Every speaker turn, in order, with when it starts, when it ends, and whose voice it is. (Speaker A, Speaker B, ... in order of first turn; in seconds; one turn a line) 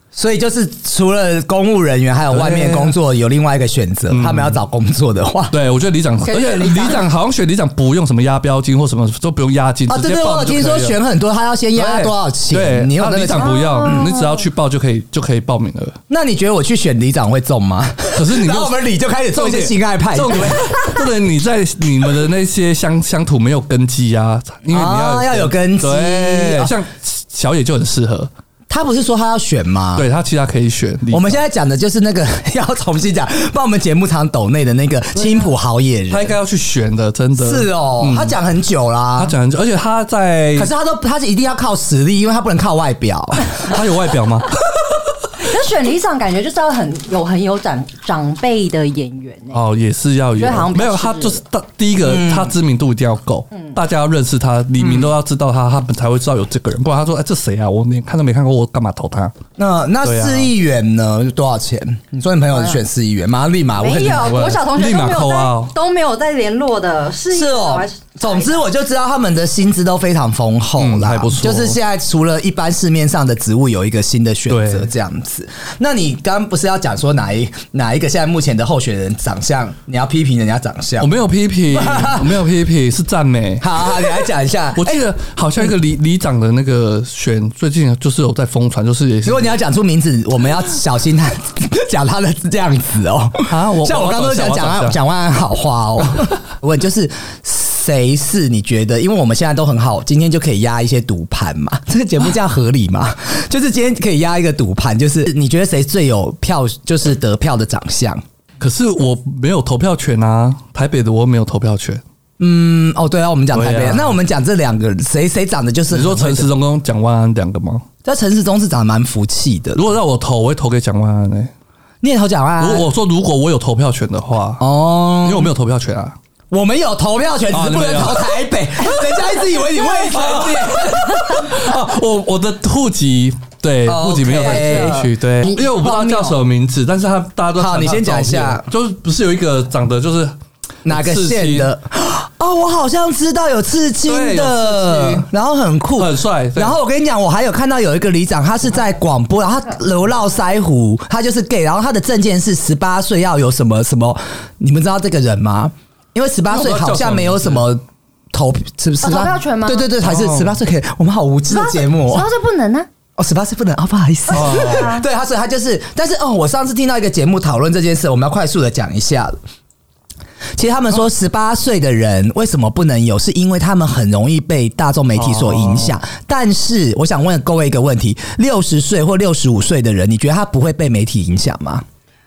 Speaker A: 0.1-5.6
Speaker B: 2.3-3.0
Speaker B: 4.1-4.6
Speaker B: 5.5-11.0
Speaker C: 6.4-7.0
Speaker A: 6.6-7.0
Speaker A: 9.9-14.1
Speaker B: 11.7-15.9
Speaker C: 13.4-14.4
Speaker A: 16.1-21.0
Speaker B: 18.1-28.3
Speaker A: 24.7-26.7
Speaker A: 28.7-30.1
Speaker B: 29.9-31.4
Speaker A: 31.1-36.4
Speaker B: 36.1-38.4
Speaker A: 37.4-39.4
Speaker B: 39.2-40.7
Speaker A: 40.5-43.8
Speaker B: 43.6-44.9
Speaker C: 45.4-49.6
Speaker B: 49.5-59.3
Speaker C: 50.4-51.4
Speaker A: 52.0-52.5
Speaker C: 53.5-53.8
Speaker A: 54.8-55.1
Speaker A: 59.6-64.5
Speaker B: 60.0-60.5
Speaker C: 62.5-62.8
Speaker C: 63.7-68.7
Speaker B: 64.2-65.7
Speaker A: 67.3-81.1
Speaker B: 70.8-71.8
Speaker B: 74.5-74.9
Speaker B: 81.0-89.6
Speaker A: 81.7-82.3
Speaker A: 83.6-85.0
Speaker A: 89.2-108.2
Speaker B: 93.5-95.0
Speaker B: 108.6-112.0
Speaker A: 112.4-116.5
Speaker B: 113.5-114.2
Speaker B: 115.9-117.8
Speaker A: 118.0-119.9
Speaker B: 119.7-121.5
Speaker A: 122.0-122.9
Speaker B: 122.6-126.2
Speaker A: 124.6-125.5
Speaker A: 126.5-131.5
Speaker B: 127.5-128.3
Speaker B: 129.9-140.3
Speaker A: 133.8-136.4
Speaker C: 134.3-135.1
Speaker A: 137.6-138.7
Speaker A: 140.8-162.2
Speaker B: 140.8-141.7
Speaker B: 144.0-145.3
Speaker B: 145.9-146.8
Speaker B: 156.5-157.6
Speaker C: 159.0-159.9
Speaker B: 160.0-160.6
Speaker C: 161.5-162.9
Speaker A: 163.2-169.3
Speaker C: 164.3-165.1
Speaker B: 164.3-164.9
Speaker A: 170.6-181.8
Speaker B: 175.1-175.9